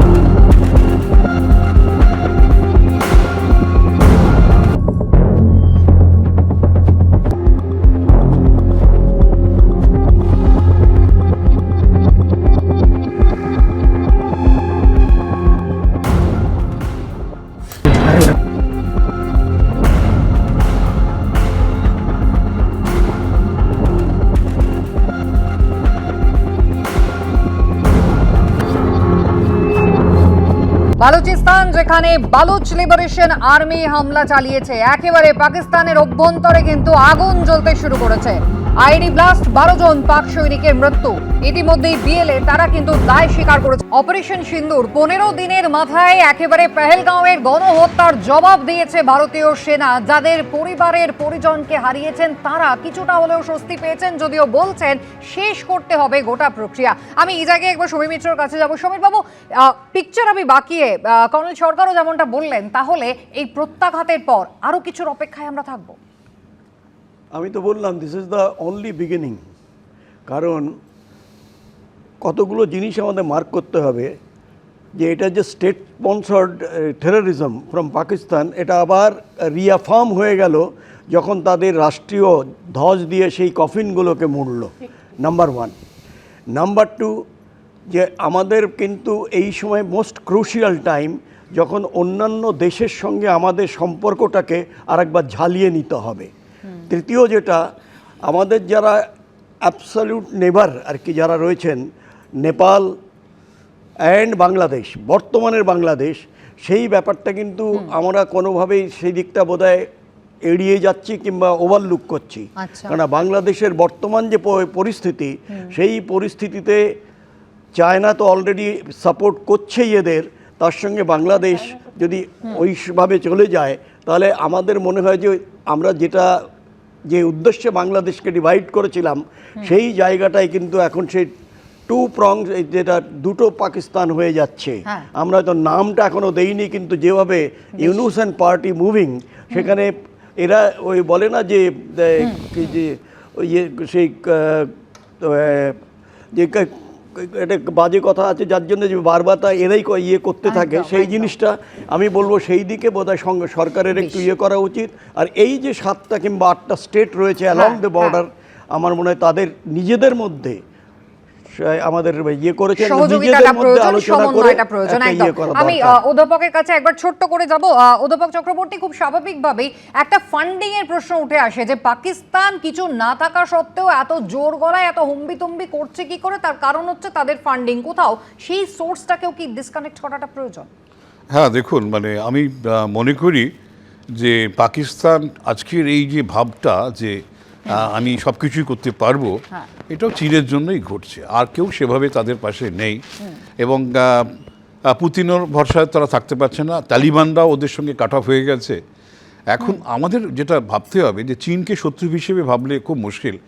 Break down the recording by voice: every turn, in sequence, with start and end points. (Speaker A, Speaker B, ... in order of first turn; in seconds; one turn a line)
Speaker A: 31.0-66.0
Speaker B: 67.3-69.4
Speaker B: 70.3-70.7
Speaker B: 72.2-74.1
Speaker B: 75.0-85.7
Speaker B: 86.5-87.1
Speaker B: 87.9-96.3
Speaker B: 96.9-97.6
Speaker B: 98.2-99.0
Speaker B: 99.6-101.8
Speaker B: 102.4-102.9
Speaker B: 104.0-109.9
Speaker B: 110.5-116.8
Speaker A: 112.6-113.0
Speaker B: 117.8-126.3
Speaker B: 127.1-131.3
Speaker B: 131.9-145.8
Speaker A: 137.8-138.0
Speaker B: 146.3-160.6
Speaker A: 150.4-151.3
Speaker A: 153.9-154.2
Speaker A: 157.5-158.2
Speaker B: 161.6-166.0
Speaker A: 162.8-180.7
Speaker C: 181.3-183.5
Speaker C: 184.1-193.0
Speaker C: 193.6-194.3
Speaker C: 194.9-198.8
Speaker C: 199.5-203.4